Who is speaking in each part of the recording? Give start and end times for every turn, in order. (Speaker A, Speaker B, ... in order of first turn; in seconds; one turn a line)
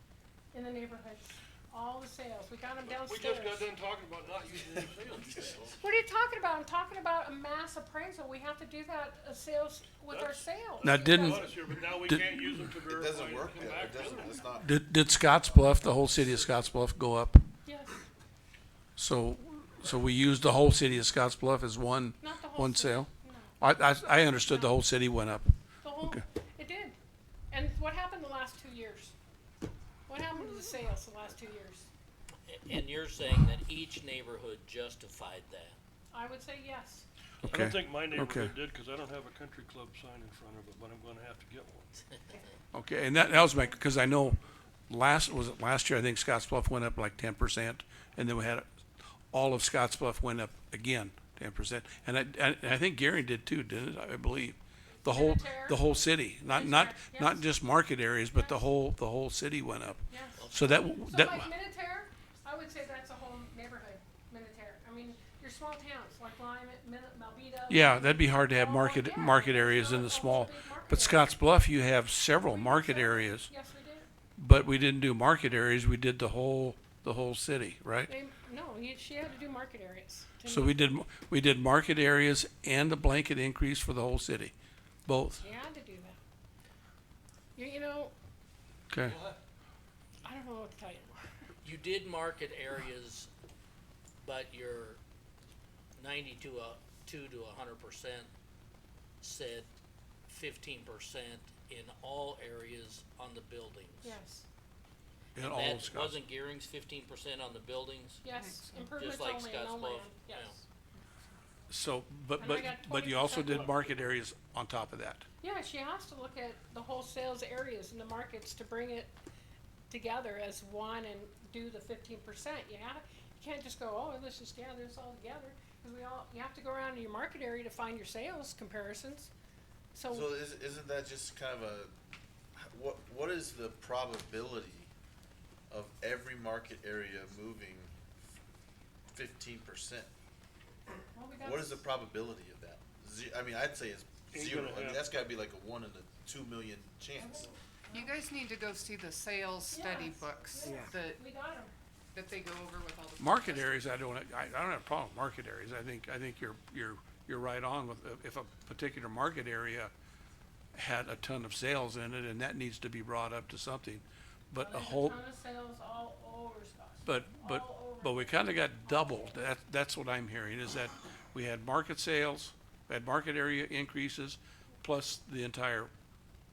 Speaker A: 0.5-3.7
Speaker B: 2.8-5.8
Speaker C: 4.6-5.8
Speaker A: 5.8-11.5
Speaker B: 10.1-14.5
Speaker D: 10.8-11.4
Speaker D: 12.0-12.7
Speaker C: 12.9-14.8
Speaker D: 14.6-17.4
Speaker C: 15.3-16.7
Speaker A: 17.6-18.0
Speaker D: 18.9-25.5
Speaker A: 22.2-23.6
Speaker A: 24.4-24.8
Speaker A: 25.8-27.0
Speaker A: 27.5-29.1
Speaker A: 30.1-31.9
Speaker E: 32.5-35.8
Speaker A: 36.1-37.0
Speaker B: 37.4-42.0
Speaker D: 37.4-38.5
Speaker D: 42.7-48.6
Speaker D: 49.3-61.5
Speaker A: 55.0-55.8
Speaker A: 56.4-57.5
Speaker A: 58.3-58.6
Speaker A: 60.1-60.4
Speaker E: 60.4-60.8
Speaker A: 61.0-71.3
Speaker D: 67.7-73.5
Speaker A: 72.4-74.1
Speaker D: 74.4-78.1
Speaker A: 78.1-81.0
Speaker D: 80.4-84.5
Speaker D: 85.1-85.4
Speaker A: 85.4-86.2
Speaker A: 87.5-88.1
Speaker D: 88.9-89.2
Speaker B: 89.0-89.4
Speaker A: 90.2-91.2
Speaker E: 91.6-93.3
Speaker E: 94.2-95.0
Speaker E: 96.0-98.3
Speaker E: 99.2-99.7
Speaker E: 100.3-104.2
Speaker A: 104.0-104.5
Speaker D: 105.3-106.2
Speaker E: 105.3-108.2
Speaker A: 108.2-110.6
Speaker F: 108.3-108.8
Speaker E: 109.0-110.5
Speaker D: 111.7-115.2
Speaker A: 112.3-113.8
Speaker B: 113.4-114.0
Speaker A: 115.4-119.1
Speaker A: 119.9-129.3
Speaker A: 129.9-130.3
Speaker C: 130.1-131.9
Speaker C: 132.6-134.9
Speaker C: 135.7-138.0
Speaker C: 139.1-140.1
Speaker A: 141.1-141.8
Speaker C: 141.4-147.5
Speaker B: 144.3-145.0
Speaker A: 147.2-148.1
Speaker F: 147.9-151.2
Speaker A: 149.7-151.7
Speaker F: 152.1-153.8
Speaker D: 153.2-159.9
Speaker D: 160.7-165.2
Speaker A: 164.6-169.5
Speaker D: 167.0-175.9